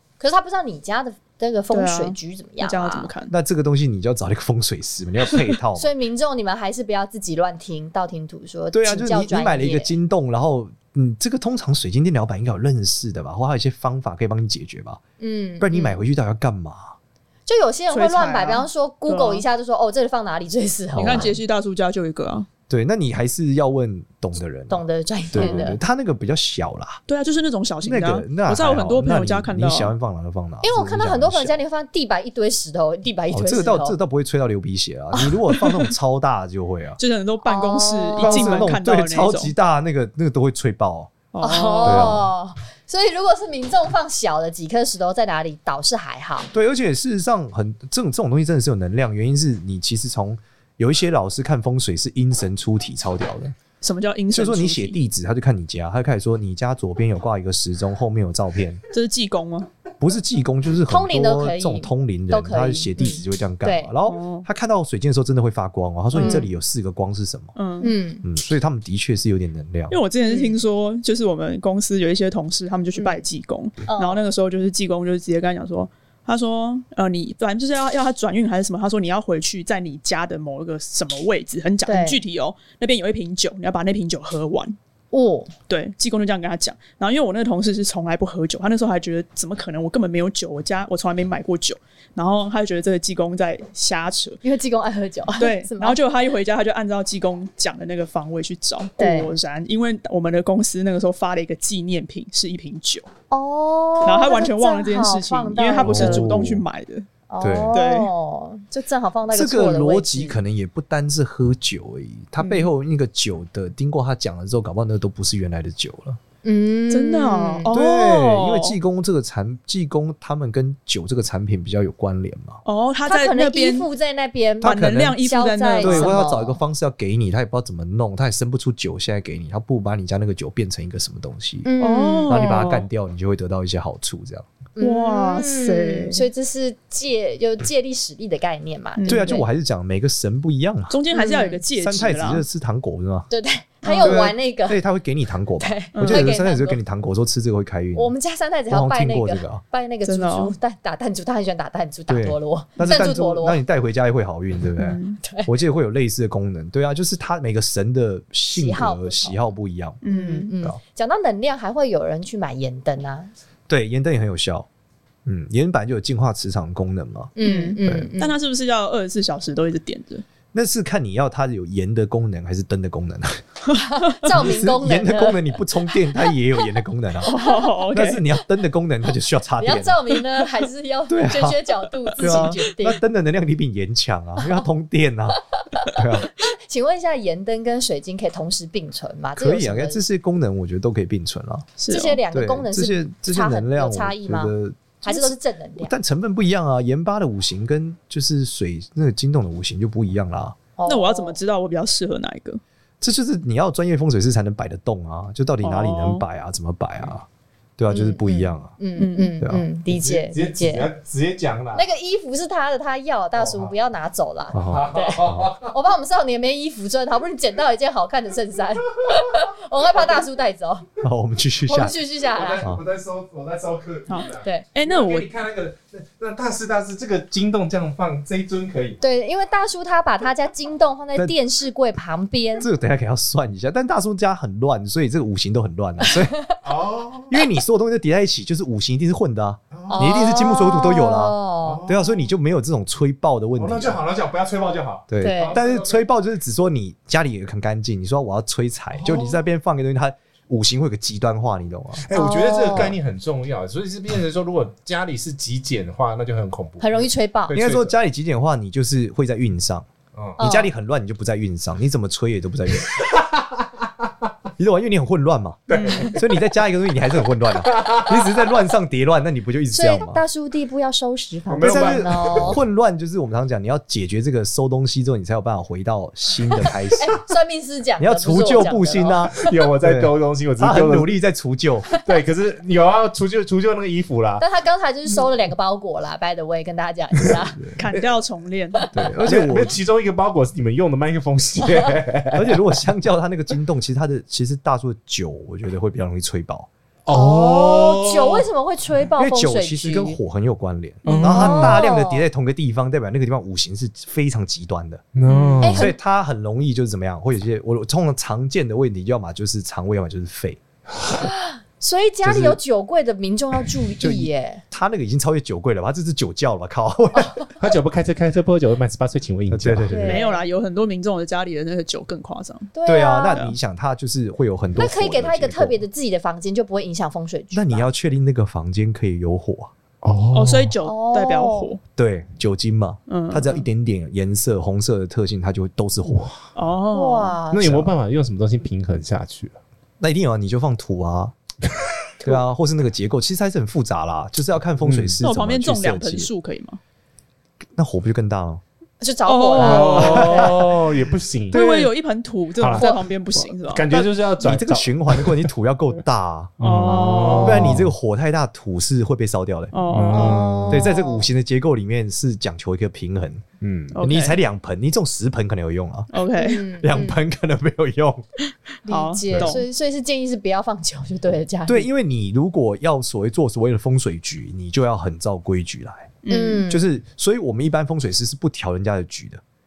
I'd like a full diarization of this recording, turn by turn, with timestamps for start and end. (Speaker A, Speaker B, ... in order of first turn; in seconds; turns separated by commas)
Speaker A: 0.2-3.1, Speaker B: 1.7-3.3, Speaker C: 3.3-5.9, Speaker A: 5.8-9.9, Speaker C: 8.7-15.0, Speaker A: 15.2-16.0, Speaker C: 15.6-16.9, Speaker A: 17.5-21.4, Speaker B: 17.9-19.4, Speaker C: 20.9-21.3, Speaker B: 21.0-22.5, Speaker C: 22.7-27.0, Speaker A: 24.7-25.8, Speaker B: 25.4-25.7, Speaker B: 27.1-29.9, Speaker C: 27.8-31.6, Speaker A: 30.6-34.0, Speaker C: 33.3-37.0, Speaker B: 35.5-35.9, Speaker B: 37.0-39.5, Speaker A: 37.4-38.6, Speaker C: 38.2-41.1, Speaker B: 41.3-42.2, Speaker A: 41.4-46.5, Speaker C: 41.8-42.3, Speaker C: 46.5-53.5, Speaker B: 53.8-55.0, Speaker C: 54.3-58.8, Speaker B: 58.9-59.7, Speaker C: 60.0-67.5, Speaker A: 60.9-63.9, Speaker B: 64.0-64.5, Speaker B: 66.1-66.5, Speaker A: 66.2-66.5, Speaker B: 67.5-67.9, Speaker A: 67.8-68.2, Speaker C: 68.2-70.0, Speaker B: 69.9-84.8, Speaker A: 70.3-70.5, Speaker A: 73.0-73.2, Speaker A: 73.9-74.2, Speaker A: 81.8-82.2, Speaker A: 85.1-85.5, Speaker B: 85.7-94.4, Speaker A: 94.4-96.0, Speaker B: 95.4-103.1, Speaker A: 99.0-99.3, Speaker A: 103.3-106.3, Speaker B: 104.0-107.0, Speaker C: 105.8-106.6, Speaker A: 107.3-110.4, Speaker C: 107.4-107.7, Speaker B: 107.7-108.1, Speaker C: 109.3-116.2, Speaker A: 116.4-117.7, Speaker B: 116.9-118.8, Speaker C: 117.7-122.6, Speaker B: 122.6-123.9, Speaker A: 123.0-126.6, Speaker C: 124.6-125.2, Speaker B: 124.6-126.2, Speaker C: 125.8-131.7, Speaker A: 131.6-132.7, Speaker B: 131.8-132.8, Speaker C: 132.3-134.4, Speaker A: 134.8-139.4, Speaker B: 134.8-136.2, Speaker B: 139.0-139.4, Speaker C: 139.1-141.0, Speaker B: 140.9-142.4, Speaker A: 141.1-141.6, Speaker C: 141.7-143.3, Speaker A: 143.3-144.8, Speaker B: 143.8-144.2, Speaker C: 144.0-148.1, Speaker A: 145.6-146.8, Speaker B: 145.9-146.3, Speaker A: 147.9-153.6, Speaker C: 148.7-149.6, Speaker B: 150.0-150.5, Speaker C: 152.1-160.0, Speaker B: 154.8-155.2, Speaker A: 155.2-155.5, Speaker A: 158.5-159.4, Speaker B: 160.0-160.5, Speaker A: 160.0-163.3, Speaker C: 163.7-164.7, Speaker C: 165.2-168.1, Speaker A: 167.3-168.4, Speaker B: 167.4-170.2, Speaker C: 170.5-173.4, Speaker A: 173.8-175.6, Speaker C: 174.3-177.3, Speaker B: 177.2-178.2, Speaker C: 177.9-180.0, Speaker A: 179.6-183.0, Speaker C: 181.1-181.6, Speaker C: 182.1-185.4, Speaker A: 185.8-190.0, Speaker C: 185.9-186.3, Speaker C: 189.4-191.7, Speaker B: 191.8-192.2, Speaker A: 191.9-195.9, Speaker C: 192.3-195.3, Speaker C: 195.8-200.6, Speaker A: 200.8-201.4, Speaker B: 200.9-202.6, Speaker C: 203.0-207.2, Speaker B: 205.6-206.2, Speaker C: 207.8-208.7, Speaker A: 207.9-210.9, Speaker B: 209.0-209.3, Speaker D: 209.9-211.8, Speaker A: 211.7-220.8, Speaker D: 213.4-213.7, Speaker C: 214.5-215.5, Speaker D: 214.7-215.7, Speaker C: 221.0-221.9, Speaker A: 221.7-222.6, Speaker D: 222.3-229.0, Speaker B: 224.1-225.3, Speaker A: 229.0-232.7, Speaker C: 232.6-236.4, Speaker A: 236.1-236.6, Speaker D: 236.6-237.3, Speaker C: 237.3-244.0, Speaker D: 239.7-240.2, Speaker A: 239.9-241.8, Speaker D: 241.6-242.3, Speaker D: 243.6-246.0, Speaker C: 245.1-252.1, Speaker A: 245.2-245.6, Speaker D: 248.9-249.4, Speaker D: 252.0-257.9, Speaker A: 252.1-252.9, Speaker A: 256.8-257.5, Speaker C: 257.5-263.0, Speaker D: 260.1-260.4, Speaker A: 260.4-260.7, Speaker D: 262.9-263.7, Speaker C: 264.6-270.2, Speaker D: 265.7-266.3, Speaker B: 265.7-266.2, Speaker D: 267.5-268.5, Speaker A: 269.7-272.6, Speaker D: 271.5-272.6, Speaker C: 271.6-277.2, Speaker A: 277.0-279.3, Speaker C: 278.0-281.9, Speaker D: 279.3-281.1, Speaker D: 282.0-284.4, Speaker A: 284.4-287.6, Speaker B: 287.8-288.8, Speaker C: 288.9-289.8, Speaker D: 289.1-292.6, Speaker C: 292.3-296.7, Speaker D: 297.1-298.5, Speaker A: 297.1-300.2, Speaker C: 299.2-305.0, Speaker D: 301.0-301.6, Speaker B: 301.0-301.8, Speaker A: 301.2-302.2, Speaker D: 305.1-305.9, Speaker B: 305.2-305.6, Speaker A: 305.6-305.9, Speaker C: 305.7-310.6, Speaker A: 311.2-314.6, Speaker C: 312.2-312.6, Speaker C: 314.0-317.4, Speaker D: 317.6-320.0, Speaker C: 319.5-320.2, Speaker A: 319.9-320.4, Speaker B: 320.0-322.7, Speaker A: 322.7-323.4, Speaker C: 322.8-325.8, Speaker A: 324.8-327.9, Speaker C: 327.5-329.7, Speaker D: 330.0-330.7, Speaker B: 330.3-331.8, Speaker A: 330.8-331.7, Speaker C: 332.0-336.3, Speaker B: 333.1-333.6, Speaker D: 336.1-336.4, Speaker B: 336.5-337.4, Speaker A: 336.9-337.8, Speaker D: 337.5-339.6, Speaker C: 337.6-337.9, Speaker C: 340.0-341.4, Speaker C: 342.2-346.3, Speaker D: 344.8-345.2, Speaker B: 345.2-346.8, Speaker C: 347.7-348.6, Speaker A: 349.0-350.6, Speaker B: 349.2-350.6, Speaker D: 349.6-351.9, Speaker B: 351.5-354.1, Speaker D: 352.6-352.9, Speaker A: 352.8-353.1, Speaker D: 353.6-355.5, Speaker C: 354.4-356.5, Speaker D: 356.6-357.9, Speaker B: 356.6-357.8, Speaker A: 356.9-357.5, Speaker C: 357.4-359.7, Speaker B: 359.7-360.6, Speaker D: 359.9-360.9, Speaker A: 360.1-361.3, Speaker C: 360.7-363.4, Speaker D: 363.6-363.9, Speaker B: 363.9-364.4, Speaker C: 364.0-366.1, Speaker B: 366.1-366.6, Speaker A: 366.4-367.2, Speaker C: 366.8-368.2, Speaker A: 368.9-371.9, Speaker B: 368.9-369.6, Speaker C: 371.7-376.2, Speaker B: 376.2-376.7, Speaker A: 376.3-376.8, Speaker C: 376.7-379.4